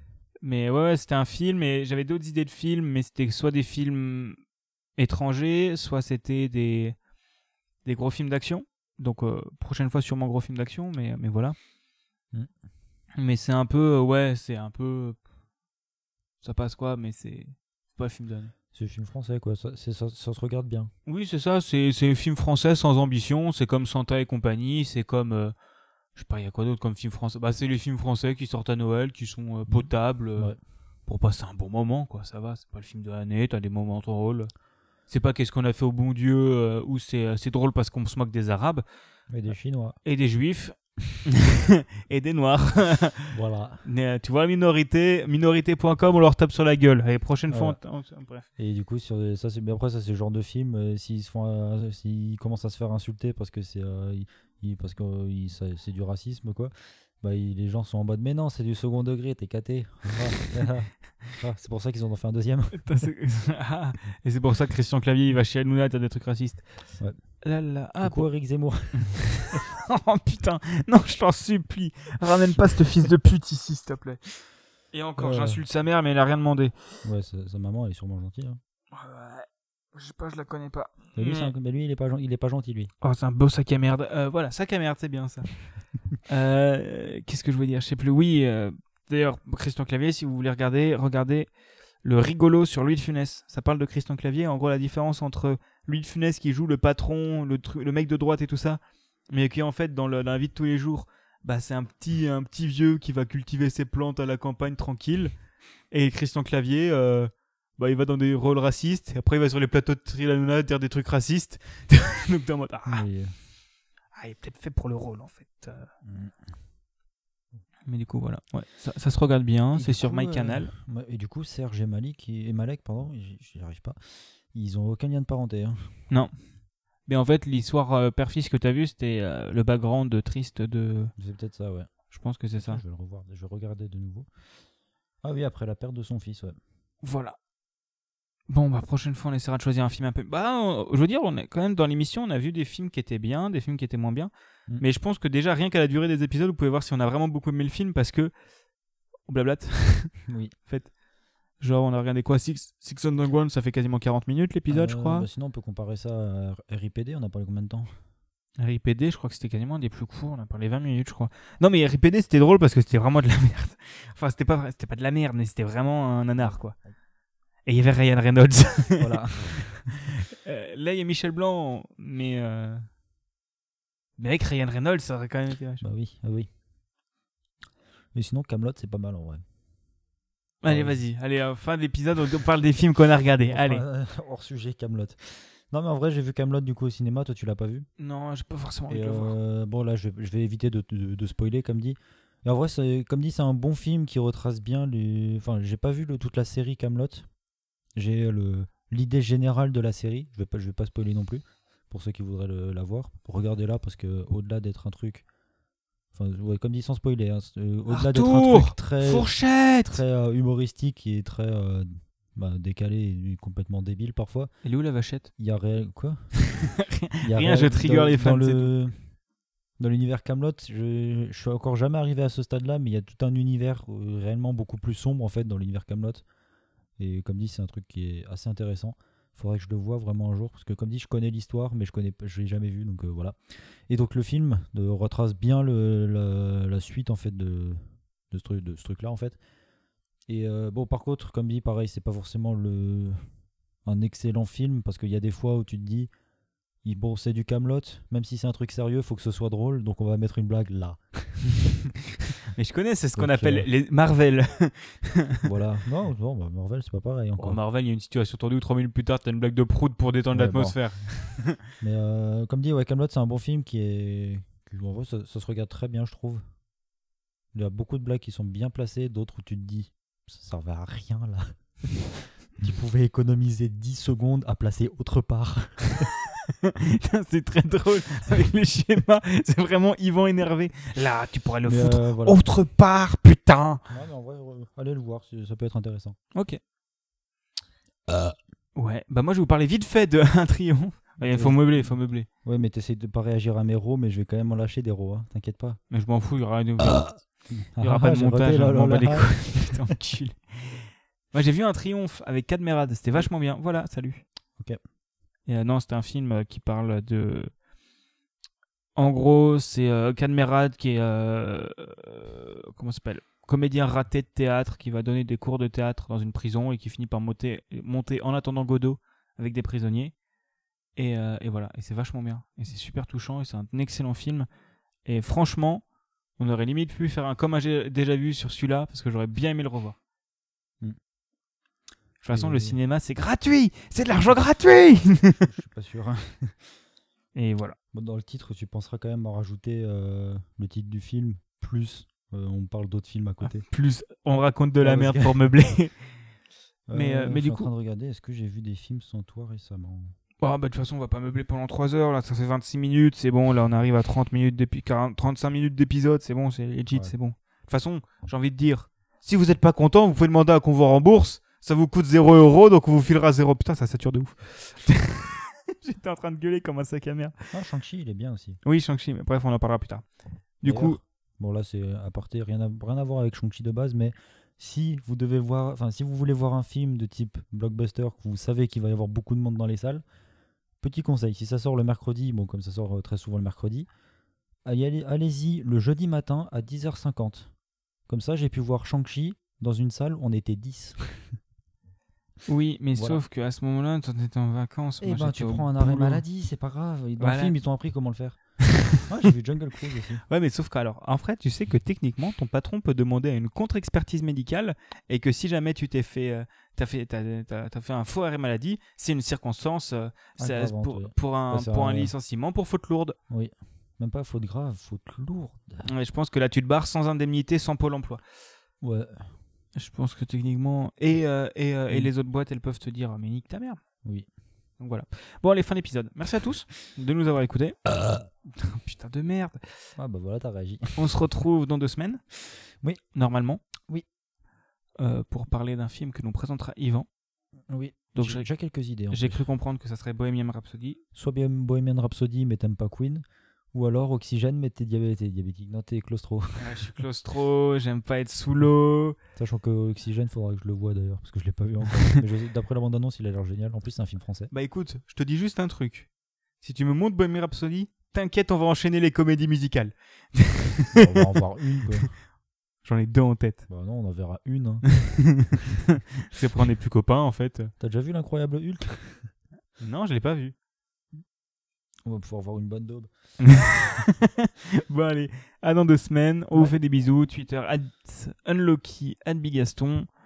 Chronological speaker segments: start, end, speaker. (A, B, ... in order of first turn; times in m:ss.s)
0:00.4-0:04.4 A
0:05.0-0:07.0 A
0:07.8-0:11.6 A
0:13.2-0:15.2 A
0:16.4-0:18.5 A
0:18.7-0:20.9 B
0:21.1-0:25.5 A
0:26.2-0:30.5 A
0:29.7-0:30.6 B
0:31.1-0:34.5 A
0:35.1-0:38.8 A
0:39.3-0:40.0 B
0:40.0-0:43.3 A
0:43.3-0:43.8 B
0:43.8-0:48.5 A
0:47.5-0:47.8 B
0:48.6-1:02.8 B
1:02.7-1:06.7 A
1:07.4-1:08.3 A
1:08.0-1:09.6 B
1:09.5-1:14.2 A
1:14.9-1:16.7 A
1:15.2-1:15.6 B
1:17.0-1:18.6 B
1:18.9-1:21.5 A
1:21.2-1:22.9 B
1:23.0-1:25.5 A
1:26.3-1:31.5 A
1:32.0-1:45.3 A
1:45.9-1:53.1 A
1:52.9-1:53.3 B
1:54.2-1:55.9 A
1:56.0-1:56.4 B
1:57.9-2:00.7 A
1:59.7-2:04.0 B
2:04.5-2:06.0 B
2:07.1-2:11.1 A
2:11.2-2:11.9 B
2:12.1-2:12.8 A
2:12.6-2:14.3 B
2:15.2-2:16.6 B
2:17.0-2:17.4 A
2:18.5-2:28.3 A
2:29.3-2:30.2 A
2:30.3-2:30.6 B
2:30.7-2:30.9 A
2:31.6-2:35.3 A
2:34.7-2:37.9 B
2:38.6-2:46.8 A
2:46.4-2:47.0 B
2:47.7-2:49.2 A
2:49.0-2:49.9 B
2:50.4-2:52.9 A
2:54.2-2:55.8 A
2:55.8-2:56.5 B
2:58.1-2:59.4 B
3:00.6-3:03.8 A
3:00.6-3:01.0 B
3:03.5-3:07.9 B
3:08.0-3:09.4 A
3:08.9-3:17.3 B
3:18.0-3:25.2 B
3:26.1-3:29.4 B
3:27.9-3:30.0 A
3:29.9-3:34.5 B
3:34.6-3:35.3 A
3:35.4-3:36.3 B
3:36.8-3:38.7 A
3:37.2-3:39.0 B
3:39.8-3:46.2 B
3:47.0-3:59.4 B
4:00.3-4:03.3 B
4:03.8-4:06.1 B
4:06.8-4:11.6 B
4:12.6-4:15.4 A
4:13.2-4:13.7 B
4:15.4-4:17.6 B
4:17.4-4:21.6 A
4:20.3-4:20.8 B
4:21.8-4:26.4 B
4:27.5-4:36.1 B
4:36.7-4:43.8 A
4:41.6-4:42.4 B
4:43.9-4:46.2 B
4:46.4-4:46.6 A
4:48.1-4:48.3 B
4:48.8-4:52.3 A
4:51.2-4:55.8 B
4:55.9-4:57.1 A
4:56.8-4:59.7 B
4:57.8-5:04.2 A
5:05.5-5:07.5 A
5:09.0-5:20.2 A
5:21.0-5:24.5 A
5:25.0-5:25.8 A
5:26.4-5:30.0 A
5:32.2-5:35.5 A
5:32.3-5:32.8 B
5:35.4-5:36.7 B
5:37.4-5:37.8 A
5:37.9-5:43.6 B
5:43.7-5:46.0 A
5:44.8-5:45.4 B
5:46.9-5:50.2 B
5:46.9-5:47.7 A
5:50.4-6:07.3 A
6:07.5-6:08.6 B
6:08.6-6:10.0 A
6:10.6-6:11.0 A
6:10.6-6:20.0 B
6:20.8-6:23.9 B
6:24.6-6:27.5 B
6:28.1-6:31.2 B
6:32.5-6:36.2 A
6:33.0-6:33.2 B
6:35.0-6:38.4 B
6:37.2-6:37.6 A
6:39.0-6:40.2 B
6:40.3-6:53.2 A
6:50.4-6:52.1 B
6:53.3-6:55.9 B
6:55.8-6:58.2 A
6:58.8-6:59.2 B
6:59.8-7:03.8 A
7:04.8-7:07.8 A
7:08.5-7:09.6 A
7:10.0-7:11.0 B
7:11.0-7:12.2 A
7:13.2-7:13.6 A
7:15.0-7:17.1 A
7:17.7-7:19.4 B
7:18.2-7:18.5 A
7:19.1-7:21.0 A
7:21.2-7:26.8 B
7:26.6-7:29.2 A
7:29.4-7:34.5 B
7:34.5-7:36.1 A
7:36.6-7:41.1 A
7:41.0-7:42.2 B
7:42.8-7:43.6 A
7:43.7-7:44.9 B
7:46.3-7:47.7 A
7:47.8-7:49.3 B
7:49.8-7:50.5 A
7:52.0-7:53.1 B
7:53.4-8:00.1 A